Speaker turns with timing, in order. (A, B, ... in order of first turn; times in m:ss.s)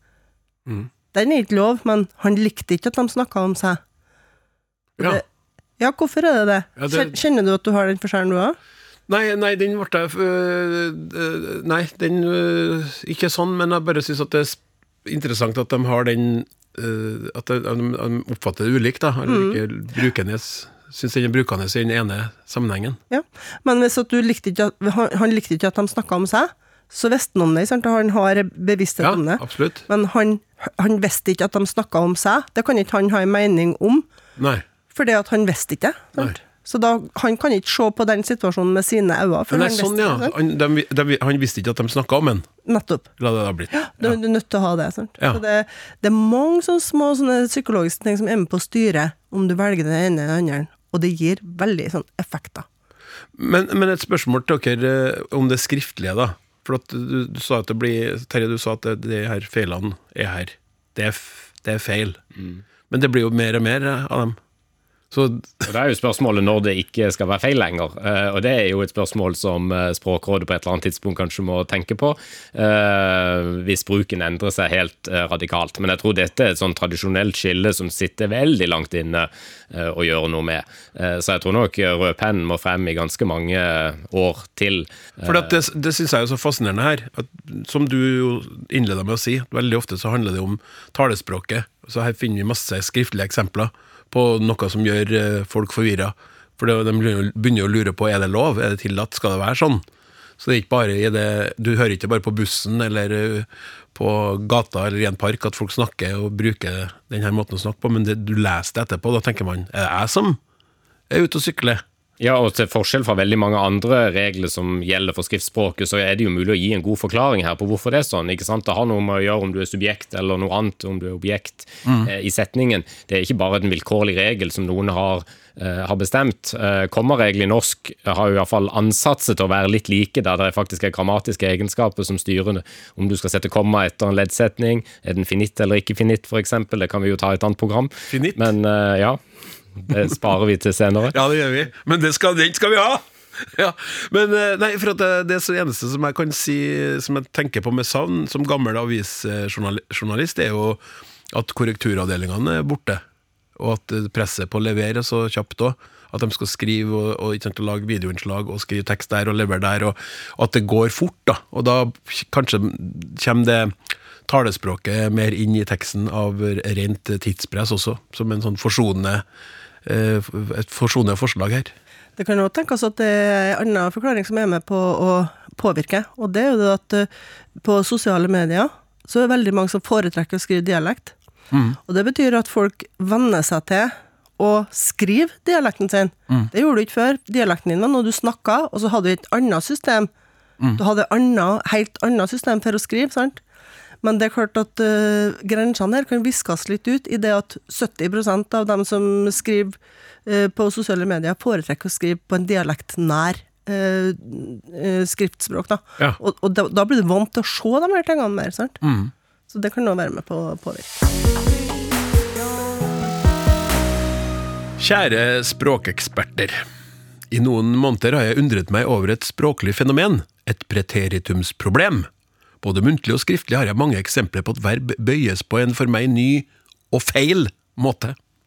0:01.1-0:03.8 A
0:05.8-0:08.6 A
0:06.8-0:07.1 B
0:09.1-0:23.0 B
0:19.3-0:19.6 A
0:23.1-0:34.0 A
0:29.0-0:29.8 B
0:34.4-0:34.6 B
0:34.9-0:40.3 A
0:39.5-0:42.5 B
0:42.6-0:43.1 A
0:43.2-0:44.2 B
0:43.7-0:52.6 A
0:53.4-1:02.2 B
1:02.9-1:04.4 B
1:05.1-1:05.7 B
1:05.7-1:25.5 C
1:25.2-1:39.8 B
1:40.4-1:50.4 B
1:51.1-1:51.8 B
1:52.2-2:19.2 C
2:01.8-2:02.1 B
2:18.1-2:18.5 B
2:19.8-2:21.2 C
2:21.1-2:30.8 B
2:31.3-2:33.0 B
2:33.6-2:43.7 B
2:44.3-2:49.2 B
2:49.8-2:51.7 B
2:52.2-3:01.1 A
3:01.5-3:01.8 B
3:01.8-3:10.1 A
3:10.8-3:13.4 A
3:14.0-3:28.8 A
3:28.8-3:29.1 B
3:29.5-3:31.0 A
3:34.8-3:36.6 B
3:37.3-3:42.1 B
3:42.6-3:48.2 B